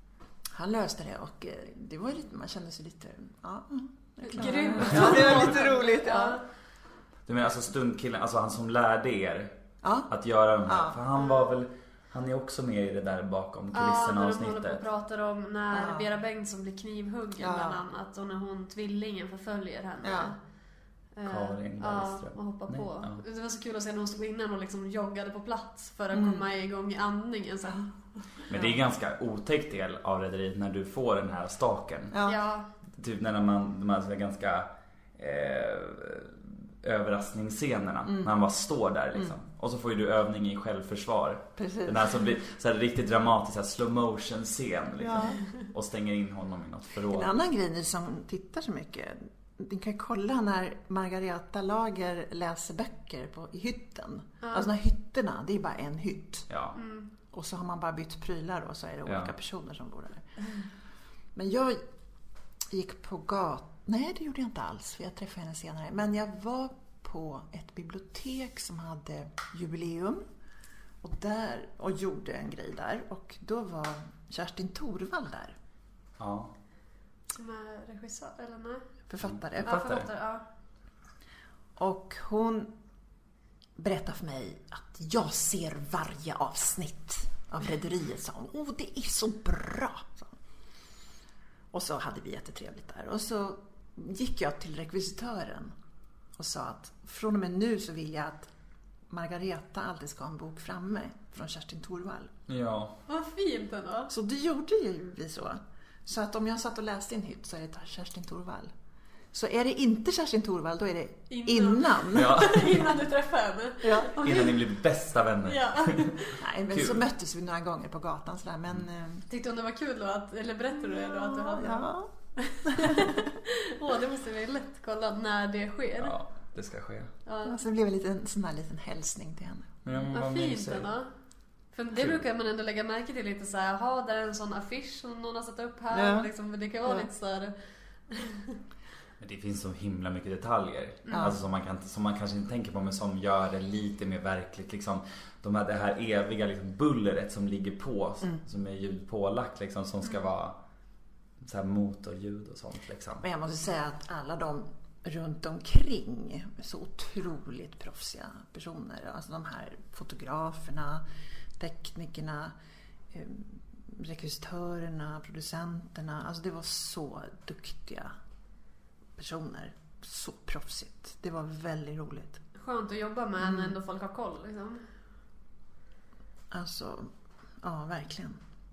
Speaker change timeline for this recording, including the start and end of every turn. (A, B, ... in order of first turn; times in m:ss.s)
0:00.5-0:06.4 A
0:04.2-0:06.4 B
0:04.9-0:05.2 C
0:07.3-0:09.6 C
0:09.8-0:10.1 A
0:10.1-0:14.8 C
0:10.6-0:11.0 A
0:13.7-0:20.4 B
0:15.7-0:16.1 A
0:17.4-0:17.8 A
0:20.0-0:20.3 A
0:21.1-0:27.9 B
0:21.2-0:23.2 C
0:26.1-0:26.4 A
0:28.5-0:32.2 C
0:32.1-0:32.4 A
0:32.2-0:32.7 B
0:32.9-0:47.4 C
0:41.6-0:42.1 A
0:45.0-0:45.4 A
0:47.1-0:56.5 A
0:54.4-0:54.7 B
0:56.5-0:56.8 C
0:56.8-0:57.1 B
0:57.3-1:00.6 A
0:59.0-0:59.3 C
1:01.3-1:01.8 A
1:02.7-1:10.2 A
1:11.0-1:15.6 A
1:16.2-1:16.5 C
1:17.3-1:18.8 B
1:19.1-1:19.8 A
1:19.2-1:20.1 C
1:19.6-1:20.4 B
1:21.8-1:22.7 A
1:23.8-1:30.4 A
1:31.7-1:35.7 A
1:36.4-1:38.5 A
1:39.1-1:42.3 A
1:42.5-1:43.0 C
1:43.1-1:44.1 B
1:44.1-1:48.7 A
1:49.3-1:52.4 A
1:51.3-1:54.7 B
1:52.1-1:52.9 C
1:53.8-1:54.1 A
1:54.2-1:57.0 C
1:55.5-1:56.4 B
1:56.4-1:59.2 A
1:59.3-2:06.2 B
2:00.8-2:02.1 A
2:02.6-2:03.3 A
2:06.0-2:07.1 C
2:07.2-2:07.6 B
2:07.4-2:09.7 A
2:09.8-2:10.9 C
2:10.1-2:11.1 B
2:11.7-2:17.5 B
2:12.0-2:12.2 C
2:15.9-2:16.3 A
2:18.1-2:18.6 B
2:19.2-2:30.6 C
2:21.1-2:21.3 A
2:31.4-2:33.2 C
2:33.2-2:41.0 A
2:41.6-2:42.5 A
2:43.1-2:48.1 A
2:49.2-2:52.4 A
2:52.5-2:54.8 B
2:53.4-2:53.8 A
2:56.5-2:58.4 A